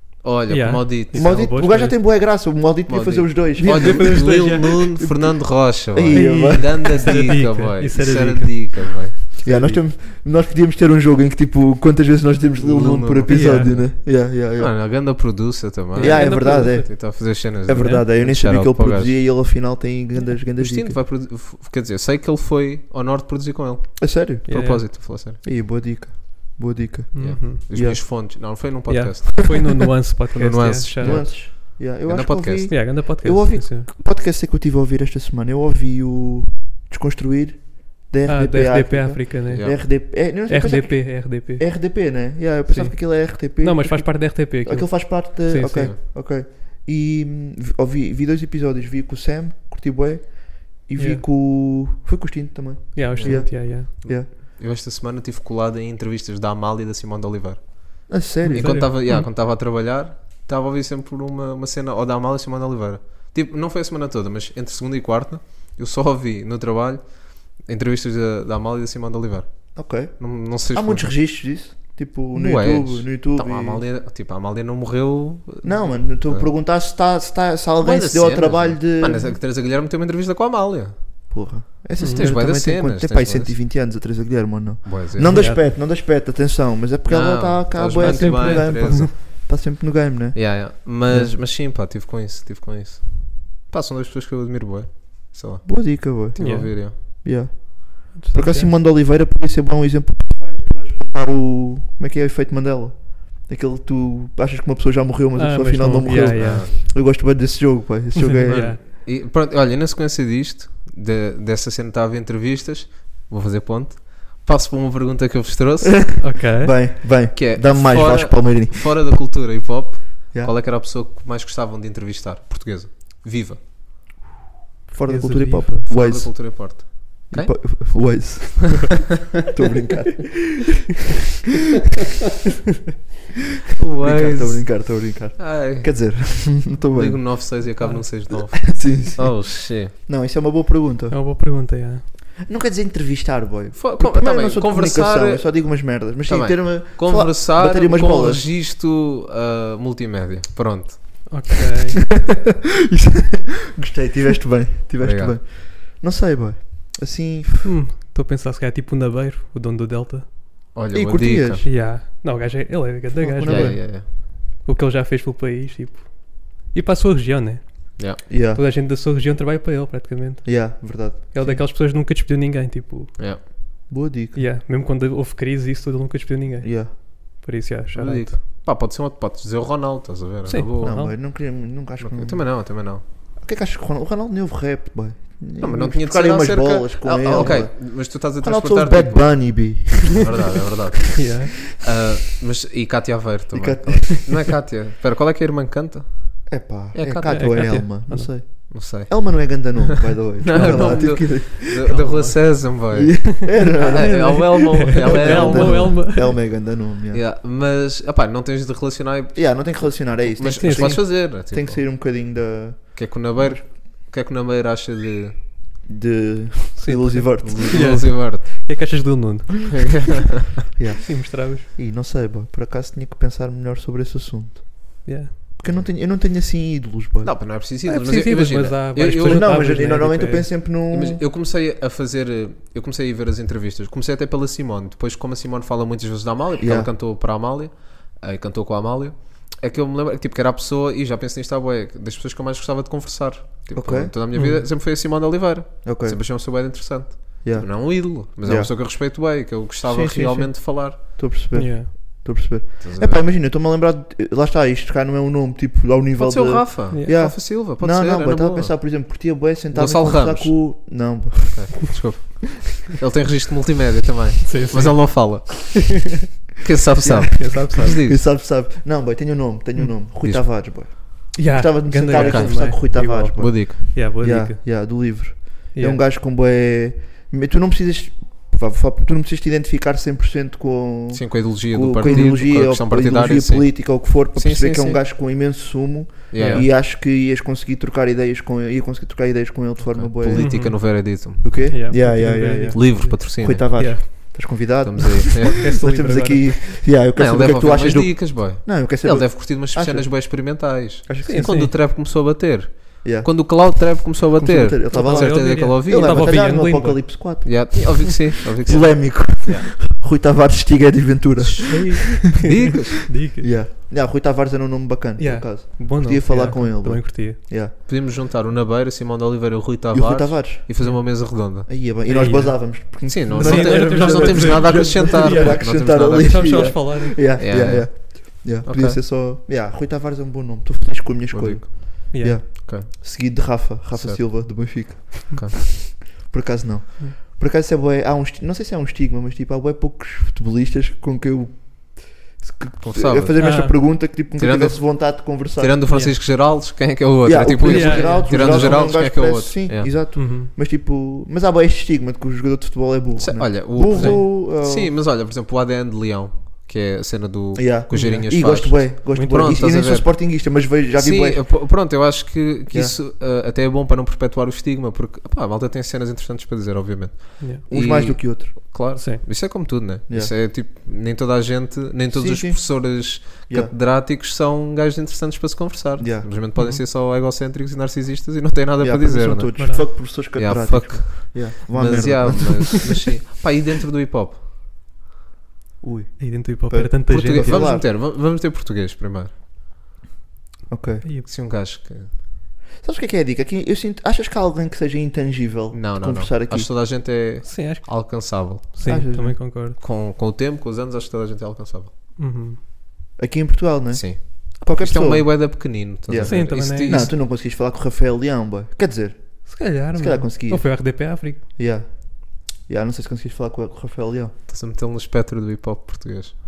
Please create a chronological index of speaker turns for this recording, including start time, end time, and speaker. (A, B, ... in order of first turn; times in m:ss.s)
0:00.2-0:01.4 A
0:00.5-0:02.0 B
0:01.1-0:07.3 C
0:02.9-0:09.2 A
0:03.6-0:04.9 B
0:06.1-0:09.8 B
0:09.4-0:14.7 C
0:12.6-0:19.2 A
0:13.2-0:13.8 B
0:15.9-0:21.0 C
0:16.0-0:17.1 B
0:17.7-0:18.0 B
0:20.6-0:25.4 A
0:24.0-0:28.0 C
0:24.5-0:24.8 B
0:27.1-0:28.1 B
0:27.2-0:29.8 A
0:28.9-0:31.2 B
0:30.3-0:32.9 A
0:31.0-0:54.3 C
0:32.7-0:33.9 B
0:38.2-0:41.9 B
0:39.5-0:39.8 A
0:42.7-0:45.9 B
0:45.7-0:46.0 A
0:51.0-0:51.2 B
0:52.9-0:53.9 B
0:53.1-1:11.1 A
0:58.1-0:59.0 C
0:58.4-0:59.3 B
1:09.7-1:13.8 C
1:12.3-1:16.5 A
1:15.6-1:19.3 C
1:17.8-1:21.0 A
1:21.3-1:31.3 C
1:22.0-1:22.3 B
1:22.1-1:23.5 A
1:24.8-1:25.5 A
1:25.3-1:25.6 B
1:27.1-1:29.2 A
1:28.0-1:29.1 B
1:30.3-1:37.0 A
1:35.6-1:48.8 C
1:36.4-1:37.2 B
1:38.1-1:38.7 B
1:45.3-1:46.6 B
1:46.4-1:46.7 A
1:48.3-1:48.8 B
1:48.5-1:56.3 A
1:56.2-1:56.7 B
1:56.2-1:59.0 C
1:57.3-2:03.6 A
2:04.9-2:10.8 C
2:05.0-2:05.9 B
2:05.9-2:08.3 A
2:13.8-2:16.4 A
2:14.0-2:17.6 C
2:17.0-2:19.9 A
2:17.8-2:18.0 B
2:18.3-2:21.2 C
2:21.1-2:22.0 B
2:22.4-2:28.5 C
2:23.7-2:31.5 A
2:31.3-2:32.0 B
2:32.1-2:37.7 C
2:35.0-2:35.4 A
2:37.6-2:40.3 B
2:40.7-2:41.6 A
2:40.9-2:41.7 C
2:41.6-2:53.2 B
2:43.2-2:43.8 C
2:43.4-2:44.1 A
2:48.3-2:48.6 C
2:50.4-2:51.6 C
2:53.9-2:54.4 C
2:54.3-2:58.4 B
2:56.6-2:56.9 C
2:57.9-3:01.2 A
3:00.4-3:01.1 B
3:00.8-3:02.8 C
3:02.0-3:03.0 A
3:03.4-3:10.4 C
3:05.6-3:17.8 A
3:07.4-3:07.6 B
3:11.1-3:11.6 B
3:13.5-3:14.3 C
3:16.5-3:22.0 C
3:17.2-3:18.6 B
3:18.7-3:26.3 A
3:20.5-3:22.6 B
3:22.9-3:24.5 C
3:23.4-3:26.4 B
3:25.0-3:27.2 C
3:27.1-3:31.8 A
3:29.3-3:33.6 C
3:30.4-3:31.0 B
3:32.9-3:35.4 A
3:35.8-3:37.9 C
3:36.8-3:40.1 B
3:37.4-3:38.6 A
3:39.7-3:40.5 A
3:40.8-3:45.0 C
3:41.1-3:41.6 B
3:45.0-3:45.3 B
3:45.6-3:47.3 C
3:47.2-3:49.8 A
3:47.8-3:50.5 B
3:49.2-3:51.2 C
3:50.9-4:11.0 A
3:56.6-3:56.9 C
4:03.7-4:04.1 C
4:04.3-4:04.6 B
4:05.8-4:06.2 C
4:07.4-4:08.7 C
4:09.8-4:22.0 C
4:11.5-4:11.9 B
4:12.8-4:13.2 A
4:16.2-4:18.8 A
4:16.9-4:17.2 B
4:19.7-4:28.2 A
4:24.4-4:25.5 B
4:27.0-4:50.8 C
4:27.3-4:28.0 B
4:30.2-4:31.1 A
4:31.3-4:35.0 B
4:32.1-4:33.9 A
4:35.7-4:36.0 B
4:41.1-4:45.0 A
4:42.0-4:42.4 B
4:46.3-4:46.7 A
4:46.4-4:46.7 B
4:49.9-4:51.7 A
4:50.3-4:51.1 B
4:51.4-5:01.7 C
4:51.7-4:54.5 B
4:52.7-4:54.3 A
4:54.8-4:55.7 A
4:55.5-4:56.5 B
4:57.2-5:06.5 A
5:01.2-5:01.7 B
5:03.0-5:12.7 C
5:04.9-5:07.5 B
5:07.4-5:09.2 A
5:08.6-5:09.7 B
5:11.4-5:13.2 A
5:11.7-5:13.5 B
5:13.4-5:17.7 C
5:15.2-5:17.4 B
5:17.8-5:22.3 A
5:19.9-5:21.1 C
5:21.6-5:46.0 C
5:22.0-5:27.2 B
5:23.0-5:26.8 A
5:27.3-5:29.0 A
5:31.3-5:32.1 A
5:32.1-5:32.4 B
5:32.6-5:33.4 A
5:33.9-5:35.6 A
5:42.8-5:49.9 A
5:43.4-5:43.8 B
5:45.9-5:46.2 B
5:47.2-5:54.9 C
5:47.6-5:48.9 B
5:50.1-5:50.5 B
5:53.2-6:24.4 A
5:53.9-5:54.2 B
5:57.5-6:01.5 C
5:57.9-5:58.3 B
5:59.1-5:59.6 B
6:02.7-6:02.9 C
6:07.7-6:08.6 C
6:08.9-6:09.2 B
6:10.1-6:10.3 C
6:12.1-6:13.7 C
6:16.0-6:16.3 C
6:16.6-6:16.8 B
6:18.8-6:22.9 C
6:19.6-6:19.9 B
6:25.8-6:27.8 C
6:26.2-6:27.7 B
6:27.1-6:29.3 A
6:30.7-6:31.0 C
6:31.2-6:32.1 A
6:32.8-6:36.7 C
6:35.7-6:38.8 A
6:37.4-6:39.8 B
6:38.8-6:39.4 C
6:39.7-6:41.9 A
6:42.2-6:42.6 B
6:43.2-6:54.3 C
6:43.9-6:47.1 A
6:46.2-6:47.1 B
6:49.4-6:51.4 B
6:54.5-6:56.3 A